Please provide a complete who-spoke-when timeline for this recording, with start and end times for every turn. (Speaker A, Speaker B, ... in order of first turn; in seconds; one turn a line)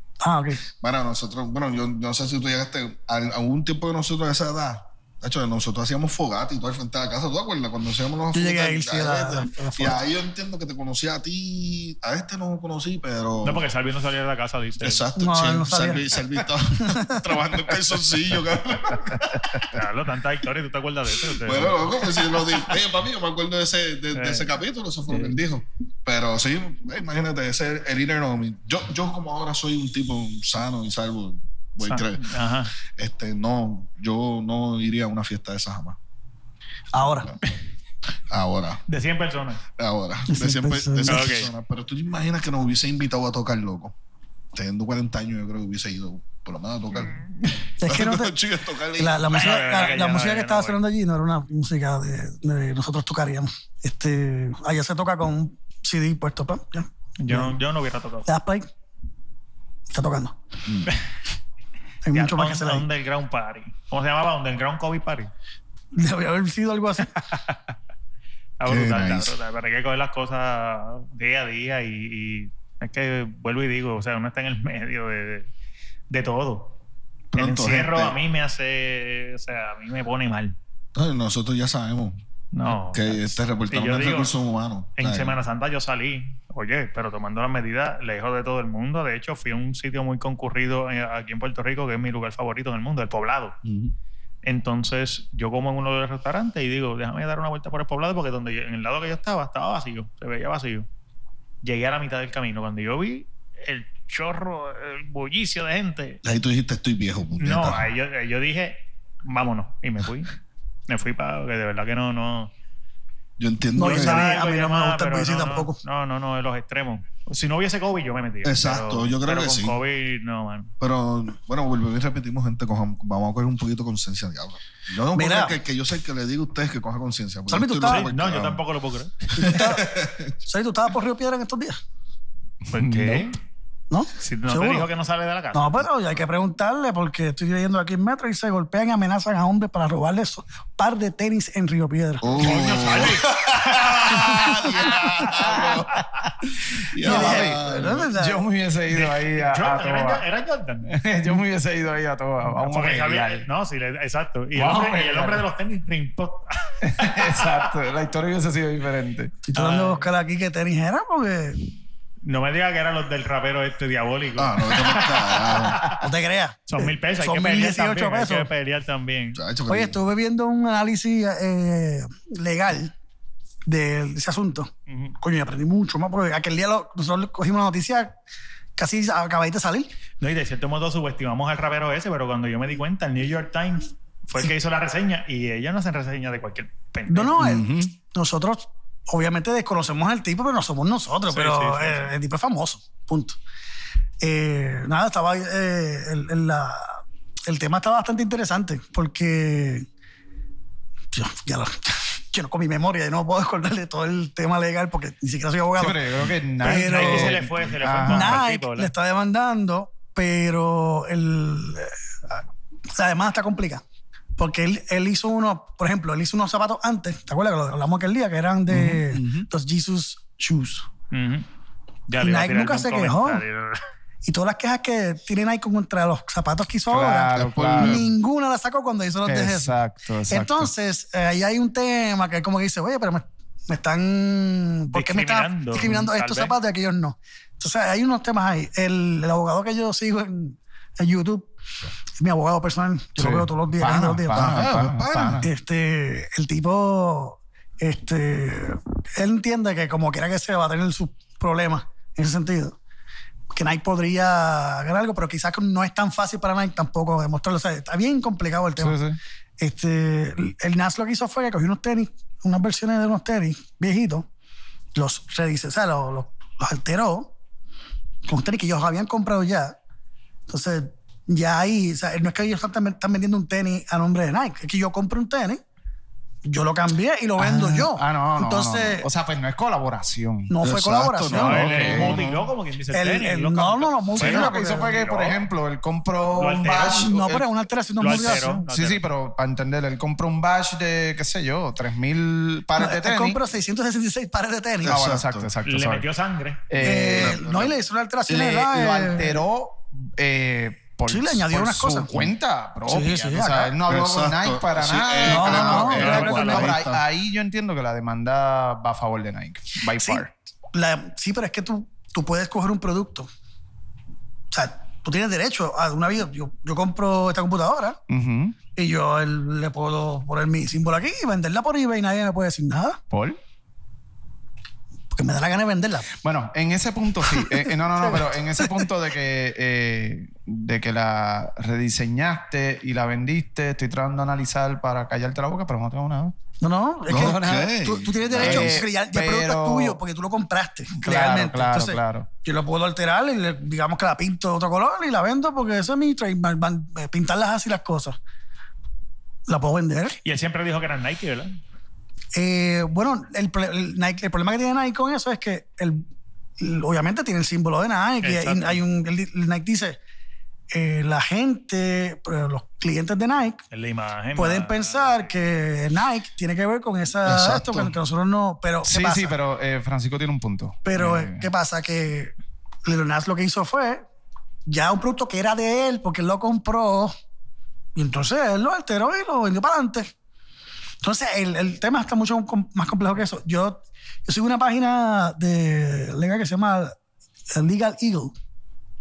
Speaker A: 0.2-0.7
Speaker B: 0.8-13.7
Speaker A: 8.3-10.0
Speaker C: 13.4-15.0
Speaker B: 14.8-19.7
Speaker A: 15.2-16.2
Speaker A: 16.8-17.3
Speaker C: 19.7-22.2
Speaker B: 21.4-32.3
Speaker C: 24.1-24.5
Speaker C: 25.1-25.4
Speaker C: 31.8-32.7
Speaker B: 32.9-36.0
Speaker A: 36.9-37.3
Speaker B: 38.3-38.8
Speaker C: 38.9-39.6
Speaker B: 39.8-43.9
Speaker A: 40.3-41.3
Speaker C: 41.1-41.5
Speaker B: 44.5-47.2
Speaker A: 47.8-48.3
Speaker B: 47.8-49.7
Speaker A: 49.0-57.6
Speaker C: 49.3-50.8
Speaker C: 57.2-58.3
Speaker A: 58.2-58.7
Speaker A: 59.9-60.4
Speaker A: 62.0-62.9
Speaker C: 62.1-65.3
Speaker A: 65.9-67.1
Speaker C: 67.3-67.6
Speaker C: 68.6-75.5
Speaker B: 68.7-69.3
Speaker C: 76.1-76.7
Speaker B: 77.3-78.2
Speaker C: 77.3-80.5
Speaker B: 80.9-85.4
Speaker C: 82.5-84.3
Speaker C: 85.0-93.5
Speaker B: 93.6-93.9
Speaker C: 94.4-100.9
Speaker C: 101.6-106.2
Speaker B: 106.2-107.9
Speaker C: 107.4-110.3
Speaker C: 110.9-112.5
Speaker B: 113.4-114.3
Speaker A: 113.7-115.8
Speaker C: 113.8-120.7
Speaker B: 118.4-119.8
Speaker B: 120.8-128.6
Speaker A: 125.1-125.6
Speaker A: 127.5-128.1
Speaker C: 127.8-129.6
Speaker A: 129.3-131.8
Speaker B: 129.4-130.3
Speaker C: 132.7-133.4
Speaker D: 132.7-133.3
Speaker A: 133.9-134.9
Speaker C: 134.2-135.8
Speaker A: 135.5-143.1
Speaker B: 142.2-146.0
Speaker C: 142.4-145.3
Speaker D: 145.4-145.7
Speaker B: 146.9-148.1
Speaker D: 147.0-150.2
Speaker A: 147.0-148.4
Speaker C: 148.9-150.9
Speaker D: 150.8-153.5
Speaker C: 152.6-157.7
Speaker D: 154.5-155.5
Speaker D: 156.8-159.3
Speaker A: 159.4-161.6
Speaker C: 159.5-160.1
Speaker C: 162.2-166.0
Speaker B: 164.4-165.8
Speaker A: 166.0-168.5
Speaker C: 166.7-169.4
Speaker B: 169.3-170.0
Speaker A: 169.7-172.9
Speaker A: 173.7-178.1
Speaker C: 174.9-175.1
Speaker A: 178.8-179.9
Speaker C: 180.2-187.4
Speaker A: 187.1-193.4
Speaker D: 187.4-187.9
Speaker C: 191.3-192.1
Speaker A: 194.2-199.8
Speaker A: 201.1-206.0
Speaker D: 205.8-208.4
Speaker A: 206.6-207.4
Speaker C: 206.6-208.9
Speaker A: 208.0-213.8
Speaker A: 214.4-220.9
Speaker D: 218.7-219.0
Speaker B: 219.1-219.4
Speaker C: 221.1-221.4
Speaker C: 222.1-223.8
Speaker A: 222.2-223.4
Speaker A: 224.2-229.7
Speaker D: 226.9-228.1
Speaker B: 227.3-228.1
Speaker D: 229.2-230.7
Speaker A: 230.3-241.5
Speaker C: 234.9-236.5
Speaker A: 242.2-244.5
Speaker D: 243.2-245.5
Speaker B: 244.3-245.4
Speaker A: 245.4-252.8
Speaker A: 253.5-259.0
Speaker D: 258.8-259.2
Speaker A: 259.6-264.2
Speaker A: 264.9-267.3
Speaker A: 268.2-269.8
Speaker A: 270.5-275.6
Speaker A: 276.4-279.1
Speaker D: 277.4-280.5
Speaker A: 280.5-282.0
Speaker B: 280.6-282.5
Speaker D: 281.3-282.2
Speaker C: 281.3-285.4
Speaker A: 282.9-285.0
Speaker D: 284.1-287.4
Speaker C: 286.4-287.1
Speaker A: 286.8-288.6
Speaker C: 288.0-289.0
Speaker D: 288.1-293.4
Speaker A: 292.8-295.0
Speaker B: 294.8-295.5
Speaker D: 294.8-296.1
Speaker C: 295.6-296.6
Speaker D: 296.7-297.4
Speaker A: 296.8-299.4
Speaker B: 296.9-297.8
Speaker D: 298.3-310.3
Speaker A: 301.1-302.3
Speaker A: 302.9-303.8
Speaker B: 303.9-307.0
Speaker A: 305.3-306.7
Speaker C: 305.9-306.7
Speaker A: 310.0-313.3
Speaker A: 314.5-318.0
Speaker D: 318.1-318.6
Speaker A: 318.8-323.0
Speaker D: 323.1-323.4
Speaker A: 325.1-326.1
Speaker D: 326.2-336.3
Speaker A: 327.2-328.9
Speaker A: 336.6-348.2
Speaker B: 337.1-338.8
Speaker D: 337.1-337.7
Speaker D: 338.4-340.0
Speaker D: 340.9-342.3
Speaker A: 349.5-350.2
Speaker C: 350.2-351.6
Speaker A: 352.3-356.0
Speaker A: 356.6-360.0
Speaker C: 358.2-358.8
Speaker A: 360.7-363.6
Speaker C: 363.7-365.3
Speaker A: 364.4-369.4
Speaker B: 367.2-367.9
Speaker D: 368.8-371.5
Speaker A: 370.9-372.3
Speaker A: 372.9-374.0
Speaker A: 374.6-377.1
Speaker A: 377.9-380.1
Speaker A: 381.0-386.9
Speaker A: 387.5-388.3